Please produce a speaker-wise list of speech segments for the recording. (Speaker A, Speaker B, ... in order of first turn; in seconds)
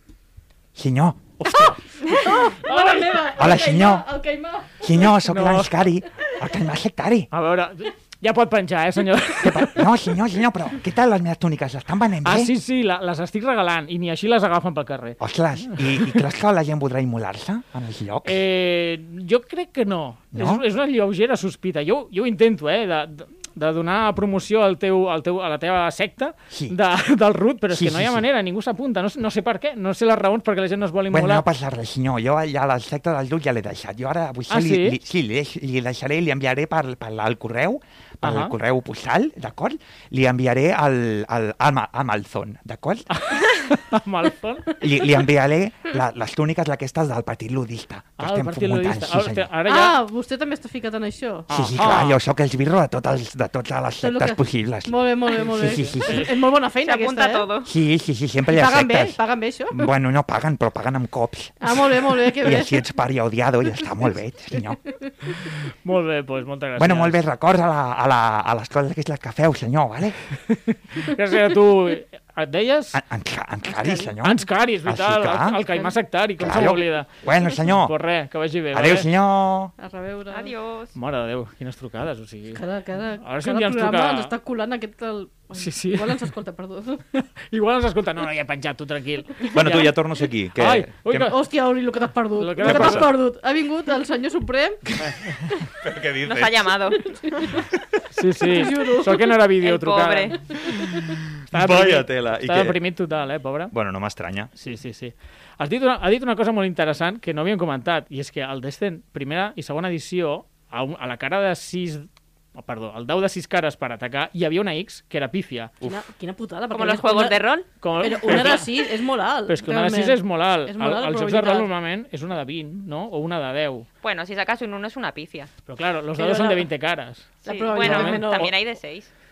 Speaker A: 0.8-1.3, 3.4-4.0, 4.8-7.3, 9.4-12.5, 15.2-18.4, 20.3-20.6, 26.5-26.8, 27.7-28.2, 31.1-43.1, 44.8-49.5, 51.5-56.3, 57.6-59.2, 59.7-64.8, 66.8-70.2, 72.9-75.6, 76.4-77.9, 78.7-79.7, 89.5-91.3, 92.6-93.1, 94.9-96.8, 101.0-102.8, 103.7-104.5
Speaker B: 1.4-3.5, 5.2-5.8, 7.3-9.9, 12.2-16.2, 18.2-31.4, 34.5-35.0, 38.2-38.5, 43.1-44.8, 48.2-50.0, 51.5-52.2, 55.6-56.3, 65.8-67.2, 70.7-73.0, 74.2-79.1, 80.9-82.6, 83.2-84.3, 85.5-86.3, 87.1-90.0, 90.5-91.3, 92.4-93.1, 95.0-95.3, 98.1-100.4, 101.5-103.7, 104.5-115.7, 117.8-118.8, 119.5-123.8, 125.7-128.5
Speaker C: 2.1-5.1, 49.6-51.5, 54.0-57.5, 58.5-59.9, 61.6-62.8, 73.7-74.1, 79.8-80.5, 82.5-87.0, 91.2-94.8, 98.5-99.3, 115.8-117.4, 118.0-121.7, 126.2-126.7, 127.4-128.5
Speaker D: 56.8-57.7, 80.3-80.9, 96.2-97.6, 99.6-100.4, 116.7-117.7, 124.0-125.5, 127.4-129.1